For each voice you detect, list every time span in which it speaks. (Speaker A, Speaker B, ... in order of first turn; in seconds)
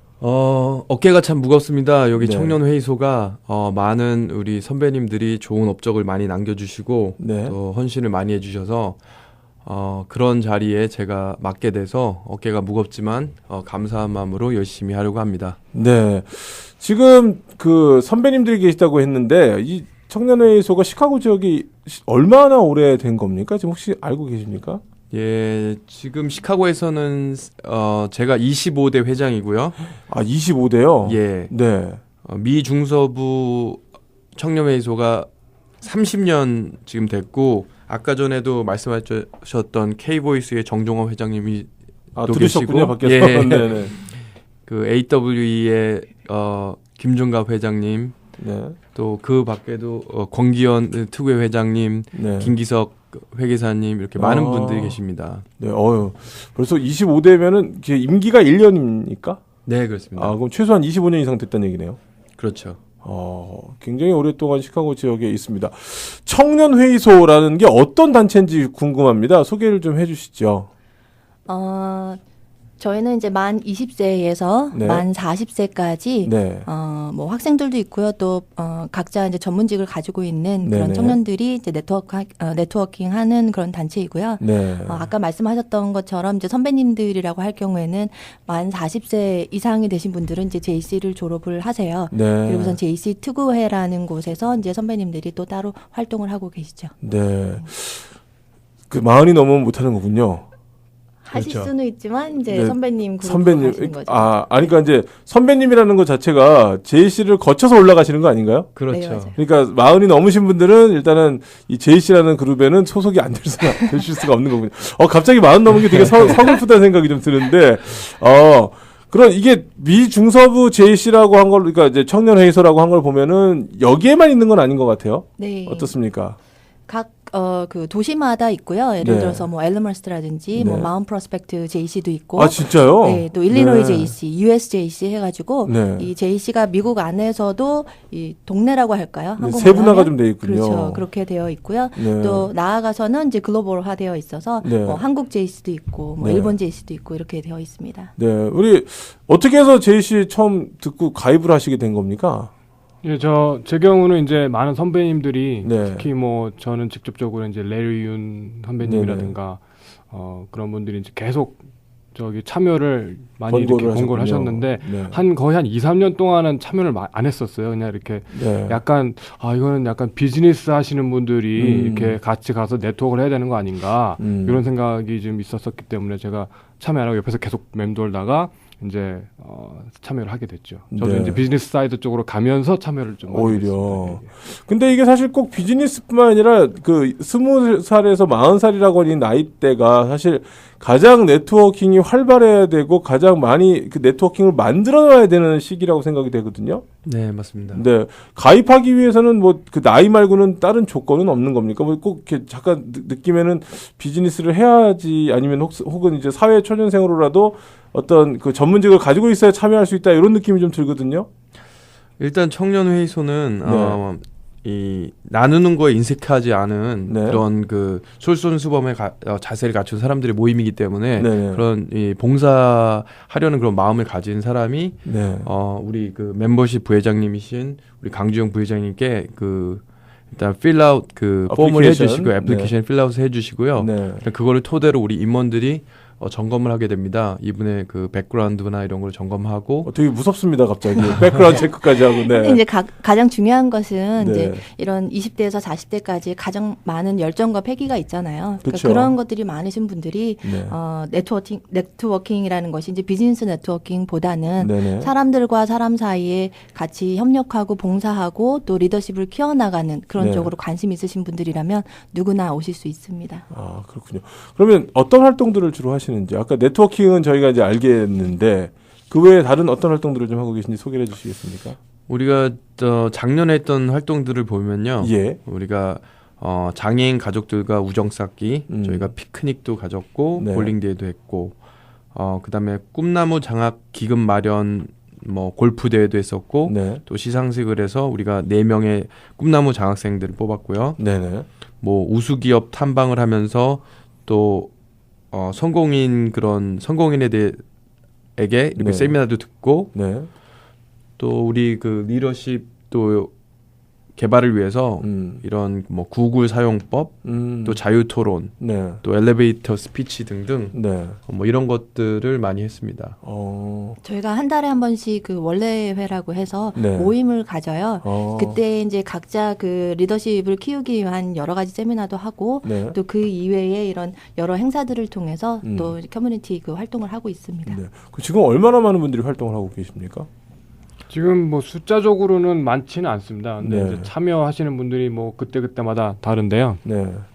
Speaker A: 0.2-9.0, 9.6-15.6, 25.1-29.8, 31.0-31.5, 32.2-33.8, 34.3-35.3, 35.8-41.7, 42.2-44.1, 44.6-48.2, 48.9-55.4, 59.6-60.3, 62.4-62.8, 101.3-101.7, 108.7-109.3, 197.0-197.8, 212.2-239.9, 241.0-241.5, 272.1-281.6, 282.1-291.0, 291.8-294.7, 295.3-297.6, 298.4-299.9, 301.2-303.3, 304.1-313.2
Speaker B: 2.2-2.6, 7.2-7.5, 15.7-24.8, 30.1-32.0, 42.1-44.0, 48.4-48.8, 52.1-52.5, 54.1-55.0, 55.6-59.4, 60.1-62.0, 63.0-70.7, 74.7-75.0, 76.2-76.7, 80.6-81.2, 84.4-85.1, 92.1-92.8, 97.0-98.1, 98.9-100.4, 102.5-108.7, 109.3-126.3, 129.0-129.5, 130.5-130.9, 132.3-134.1, 135.7-136.1, 139.4-141.0, 141.9-142.5, 144.6-145.0, 146.2-146.5, 148.2-152.5, 155.6-156.1, 158.8-159.3, 163.5-165.2, 168.3-168.8, 171.6-172.2, 174.2-174.6, 180.9-181.4, 183.3-196.8, 197.7-211.3, 213.6-214.0, 217.1-217.4, 221.2-221.6, 225.0-225.5, 231.5-232.7, 233.8-234.2, 239.8-242.6, 244.2-244.6, 248.6-249.1, 250.4-250.8, 254.6-255.1, 260.2-260.5, 263.5-271.8, 275.0-275.4, 278.7-279.1, 280.4-280.7, 286.6-287.0, 291.0-291.4, 298.8-299.2, 299.9-300.3, 305.0-305.4, 307.2-307.8, 308.6-309.0, 310.7-311.2, 313.2-314.0, 316.8-317.1, 318.0-318.6, 322.6-322.9, 325.6-325.9, 327.6-330.3, 333.6-334.1, 336.8-337.2
Speaker C: 71.5-72.2, 72.8-96.9, 101.2-104.4, 108.9-109.4, 125.4-125.9, 126.9-148.1, 241.5-263.5, 314.0-327.8
Speaker D: 153.0-161.6, 162.1-184.3, 331.1-336.8